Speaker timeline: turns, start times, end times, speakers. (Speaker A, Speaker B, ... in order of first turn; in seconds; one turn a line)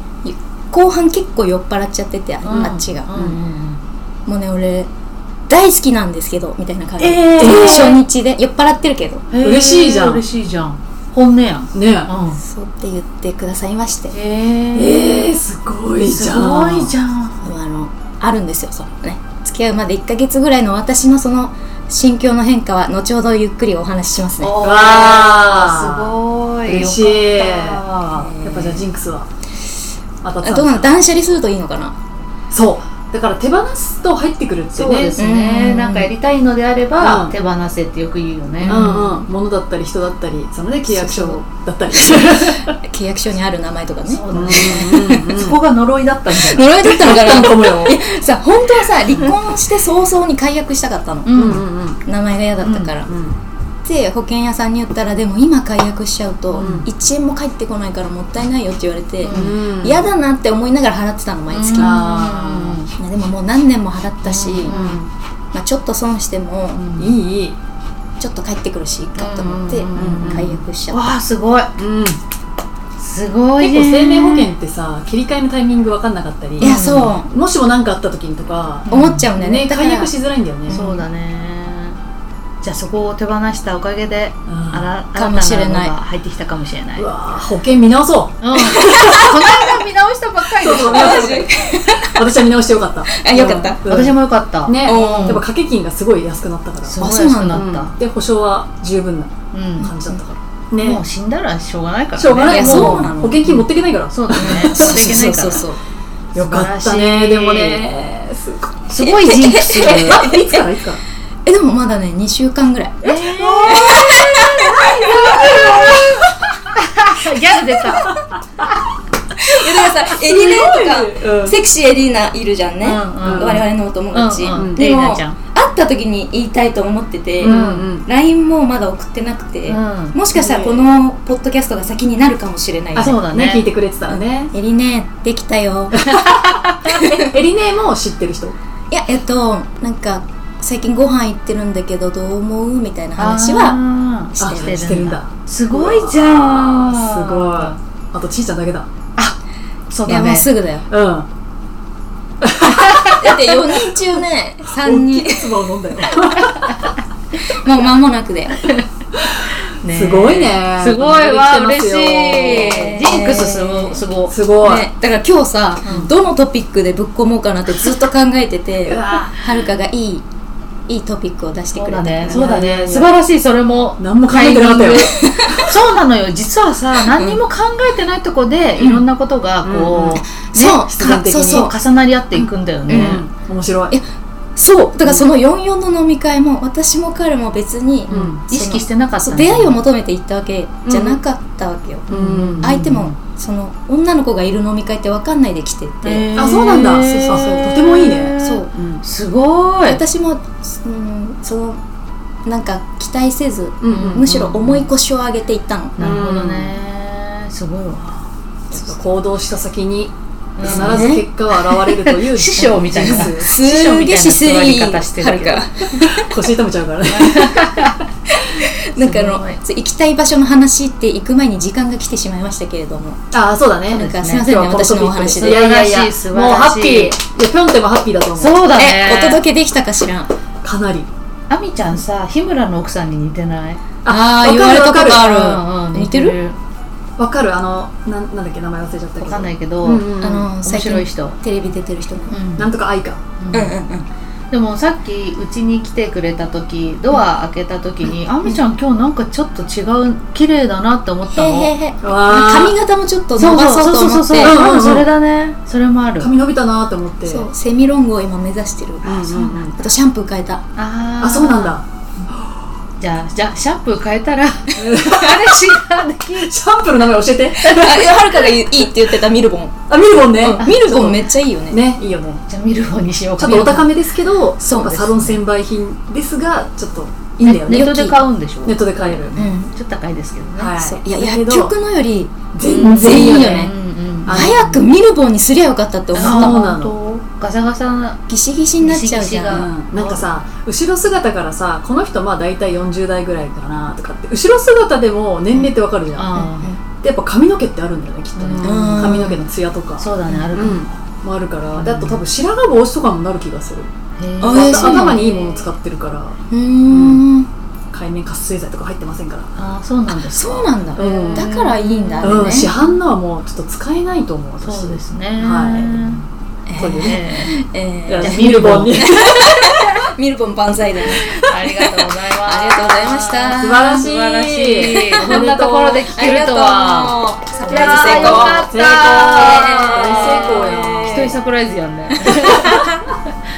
Speaker A: 0.2-3.1
Speaker B: 2.4-3.8
Speaker C: 2.5-3.4
Speaker A: 4.3-4.9
Speaker A: 5.5-9.3
Speaker B: 7.0-8.0
Speaker C: 7.4-8.0
Speaker B: 9.3-12.4
Speaker C: 9.4-10.2
Speaker C: 11.7-12.1
Speaker A: 12.3-14.1
Speaker B: 14.1-15.0
Speaker C: 14.7-16.9
Speaker B: 16.1-17.5
Speaker A: 17.4-24.6
Speaker B: 24.4-28.4
Speaker C: 24.6-27.8
Speaker A: 28.1-28.8
Speaker C: 28.4-29.3
Speaker C: 30.2-30.9
Speaker A: 30.4-32.0
Speaker C: 32.5-35.2
Speaker B: 34.7-39.0
Speaker A: 35.2-36.1
Speaker C: 37.0-37.3
Speaker A: 38.6-39.2
Speaker C: 38.6-42.7
Speaker A: 40.9-41.4
Speaker A: 42.8-45.2
Speaker B: 44.1-46.7
Speaker C: 44.3-45.6
Speaker A: 46.3-51.3
Speaker C: 46.9-48.0
Speaker B: 51.2-51.6
Speaker C: 51.3-52.0
Speaker A: 52.1-53.1
Speaker B: 52.6-52.9
Speaker C: 53.1-53.4
Speaker A: 53.9-62.0
Speaker B: 56.5-56.9
Speaker C: 56.6-56.9
Speaker B: 59.2-59.6
Speaker C: 59.3-60.0
Speaker B: 61.5-62.9
Speaker C: 61.8-62.8
Speaker A: 62.9-64.8
Speaker B: 64.2-65.1
Speaker C: 64.7-65.0
Speaker A: 65.5-66.8
Speaker B: 66.7-67.1
Speaker C: 67.0-67.6
Speaker A: 68.2-71.0
Speaker B: 69.2-71.7
Speaker C: 69.9-70.6
Speaker C: 71.8-72.2
Speaker B: 73.0-74.5
Speaker C: 73.6-76.8
Speaker B: 76.6-77.2
Speaker A: 76.6-77.3
Speaker C: 77.3-80.8
Speaker B: 78.9-79.3
Speaker A: 78.9-80.1
Speaker A: 80.7-81.1
Speaker B: 80.7-82.0
Speaker B: 82.6-87.1
Speaker C: 84.5-84.9
Speaker A: 85.1-86.0
Speaker C: 87.0-89.2
Speaker B: 88.4-91.5
Speaker A: 88.6-89.3
Speaker C: 90.6-97.0
Speaker A: 90.8-92.2
Speaker A: 93.1-93.8
Speaker B: 93.9-95.4
Speaker A: 94.8-95.4
Speaker B: 96.8-98.0
Speaker A: 97.0-97.7
Speaker C: 97.5-101.0
Speaker B: 99.5-99.9
Speaker A: 99.8-100.2
Speaker B: 100.8-105.7
Speaker C: 102.2-105.2
Speaker A: 102.5-103.4
Speaker A: 104.3-105.8
Speaker B: 106.3-107.8
Speaker C: 106.3-108.8
Speaker B: 108.9-110.2
Speaker A: 109.0-110.3
Speaker C: 109.7-111.0
Speaker A: 111.5-113.1
Speaker B: 113.0-115.9
Speaker C: 113.3-116.2
Speaker A: 113.7-116.0
Speaker B: 116.8-118.2
Speaker A: 119.4-133.2
Speaker C: 119.9-121.6
Speaker B: 122.8-125.4
Speaker C: 123.2-123.6
Speaker C: 124.5-124.9
Speaker B: 127.4-127.9
Speaker C: 127.4-128.1
Speaker B: 129.7-130.2
Speaker C: 130.3-130.9
Speaker B: 133.0-133.7
Speaker C: 133.3-134.5
Speaker A: 134.1-136.1
Speaker C: 136.0-138.6
Speaker B: 136.2-136.9
Speaker A: 138.9-143.8
Speaker B: 143.2-147.8
Speaker A: 144.3-144.8
Speaker C: 144.4-148.9
Speaker B: 149.9-150.5
Speaker A: 150.1-150.9
Speaker C: 150.9-151.3
Speaker C: 152.4-153.7
Speaker A: 153.1-155.5
Speaker C: 154.8-156.9
Speaker A: 157.5-158.7
Speaker C: 159.3-162.9
Speaker B: 159.8-164.4
Speaker A: 162.5-164.0
Speaker C: 164.3-164.9
Speaker A: 164.6-170.3
Speaker C: 165.8-166.1
Speaker B: 165.8-166.1
Speaker C: 168.8-169.5
Speaker A: 170.9-172.7
Speaker B: 171.7-183.2
Speaker C: 172.3-173.2
Speaker C: 174.0-175.7
Speaker A: 175.2-175.5
Speaker A: 177.2-177.4
Speaker C: 179.6-180.2
Speaker A: 180.2-181.7
Speaker C: 180.8-181.7
Speaker C: 182.3-184.0
Speaker A: 182.9-183.2
Speaker A: 184.6-198.7
Speaker C: 188.1-188.4
Speaker B: 188.5-189.8
Speaker C: 190.8-191.2
Speaker C: 192.1-192.7
Speaker B: 192.1-193.2
Speaker B: 196.0-200.0
Speaker C: 196.3-199.0
Speaker A: 199.8-201.8
Speaker A: 202.5-206.0
Speaker C: 203.8-204.3
Speaker B: 203.9-204.9
Speaker B: 206.0-208.3
Speaker C: 206.0-206.8
Speaker C: 208.7-213.5
Speaker B: 210.6-211.2
Speaker A: 210.6-211.3
Speaker B: 212.3-216.1
Speaker A: 212.9-216.3
Speaker C: 216.1-217.9
Speaker B: 217.1-218.0
Speaker A: 218.3-223.2
Speaker B: 219.0-219.6
Speaker C: 223.3-228.7
Speaker B: 223.9-224.7
Speaker A: 223.9-225.7
Speaker B: 225.3-227.2
Speaker B: 228.4-229.4
Speaker A: 228.8-230.3
Speaker C: 230.6-231.1
Speaker B: 231.5-233.8
Speaker C: 234.0-235.3
Speaker A: 234.1-236.4
Speaker B: 235.1-236.6
Speaker C: 237.2-240.5
Speaker B: 239.2-240.1
Speaker A: 240.2-242.4
Speaker B: 240.6-241.4
Speaker B: 242.3-242.7
Speaker C: 242.6-243.2
Speaker B: 243.4-243.8
Speaker A: 243.5-244.1
Speaker B: 244.5-251.7
Speaker A: 251.3-254.6
Speaker C: 252.0-252.8
Speaker B: 253.4-256.3
Speaker C: 254.4-255.1
Speaker C: 256.2-257.5
Speaker A: 257.3-260.6
Speaker C: 259.0-259.9
Speaker B: 260.8-261.8
Speaker C: 261.2-261.9
Speaker B: 263.0-266.5
Speaker C: 264.8-265.8
Speaker C: 266.3-268.4
Speaker A: 267.6-269.8
Speaker C: 269.9-272.4
Speaker A: 270.4-271.8
Speaker B: 270.6-271.1
Speaker B: 272.5-273.9
Speaker C: 273.4-278.0
Speaker A: 274.6-275.0
Speaker B: 274.7-275.4
Speaker B: 277.4-280.8
Speaker A: 277.6-278.2
Speaker C: 278.6-279.4
Speaker A: 279.4-279.7
Speaker C: 280.6-281.7
Speaker A: 280.8-283.7
Speaker C: 282.5-283.7
Speaker B: 282.7-284.7
Speaker C: 284.2-284.8
Speaker A: 284.3-286.6
Speaker C: 286.1-287.0
Speaker B: 286.2-288.2
Speaker A: 288.3-289.7
Speaker B: 288.8-290.3
Speaker C: 289.5-296.3
Speaker B: 296.2-296.7
Speaker A: 296.3-296.8
Speaker C: 297.0-303.9
Speaker B: 298.4-299.2
Speaker A: 298.6-299.4
Speaker B: 300.0-300.9
Speaker B: 301.8-302.2
Speaker B: 304.2-305.6
Speaker A: 304.4-305.3
Speaker C: 304.4-307.2
Speaker A: 306.5-307.5
Speaker C: 307.9-309.5
Speaker B: 309.6-312.9
Speaker A: 310.1-312.7
Speaker C: 311.0-311.7
Speaker C: 312.2-316.2
Speaker B: 314.6-316.2
Speaker A: 316.7-323.9
Speaker B: 316.8-317.5
Speaker C: 316.8-317.3
Speaker C: 318.1-319.9
Speaker B: 318.2-319.0
Speaker B: 321.2-333.1
Speaker C: 323.6-326.1
Speaker A: 324.8-331.4
Speaker C: 327.6-331.2
Speaker C: 332.3-332.8